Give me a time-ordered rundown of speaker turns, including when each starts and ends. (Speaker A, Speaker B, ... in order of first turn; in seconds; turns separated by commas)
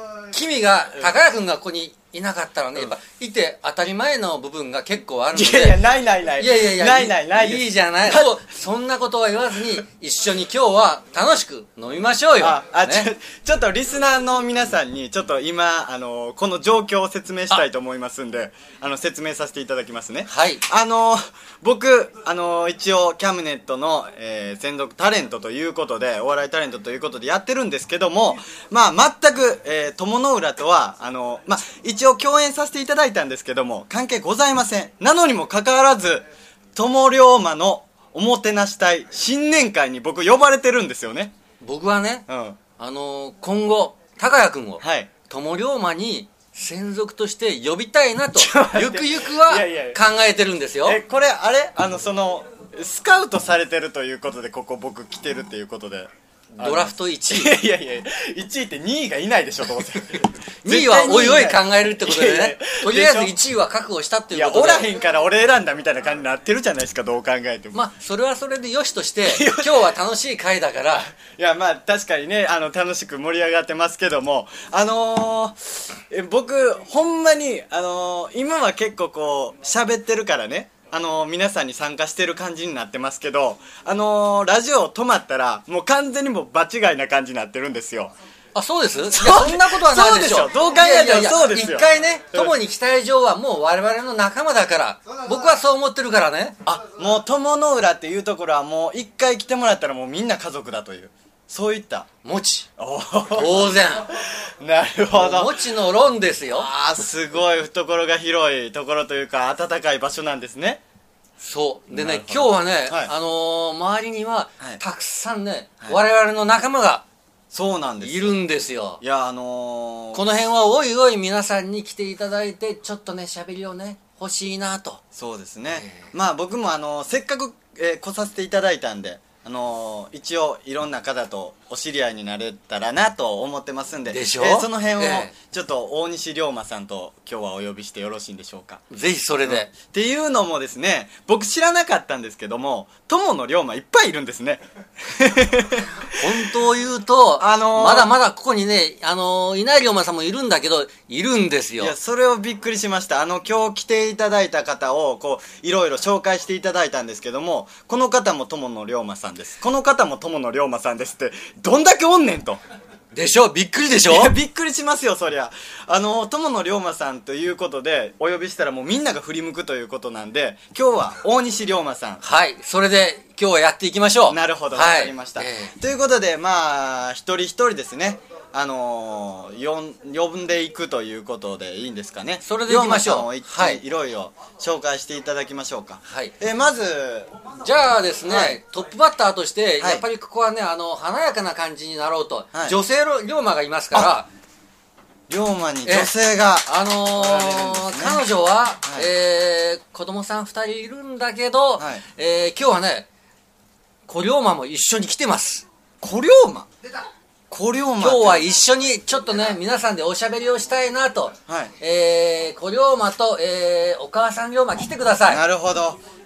Speaker A: 0.3-5.8, Speaker B: 5.3-8.4, Speaker A: 6.4-13.1, Speaker B: 12.4-41.3, Speaker A: 20.3-20.6, Speaker A: 41.6-42.2, Speaker B: 42.3-42.6, Speaker A: 42.8-51.0, Speaker B: 44.8-45.1, Speaker B: 48.3-50.0, Speaker B: 50.8-63.3, Speaker A: 56.5-57.6, Speaker A: 60.6-64.9, Speaker B: 64.3-67.8, Speaker A: 67.7-71.1, Speaker B: 69.2-69.9, Speaker B: 71.1-88.1, Speaker A: 88.5-96.6, Speaker B: 89.1-92.5, Speaker B: 96.6-102.1, Speaker A: 102.2-102.7, Speaker B: 102.8-103.8, Speaker A: 103.3-104.1, Speaker B: 104.6-105.6, Speaker A: 105.1-106.7, Speaker B: 106.5-110.8, Speaker A: 111.4-117.0, Speaker B: 111.9-113.1, Speaker B: 117.5-118.4, Speaker A: 118.0-119.0, Speaker B: 119.0-120.2, Speaker A: 120.1-125.0, Speaker B: 125.1-138.8, Speaker A: 125.7-126.1, Speaker A: 134.1-135.3, Speaker A: 138.9-139.7, Speaker B: 139.4-146.5, Speaker A: 146.2-151.9, Speaker B: 147.4-148.1, Speaker B: 151.8-162.6, Speaker A: 163.1-164.3, Speaker B: 164.1-172.2, Speaker A: 172.2-175.7, Speaker B: 174.2-187.3, Speaker A: 182.4-183.8, Speaker A: 186.0-186.3, Speaker A: 187.6-194.3, Speaker B: 188.3-188.6, Speaker B: 195.3-198.2, Speaker A: 195.8-196.1, Speaker A: 196.7-203.1, Speaker B: 201.8-202.0, Speaker A: 204.1-205.6, Speaker B: 206.0-206.7, Speaker B: 207.5-208.4, Speaker A: 208.0-215.4, Speaker B: 211.5-211.7, Speaker B: 215.3-216.0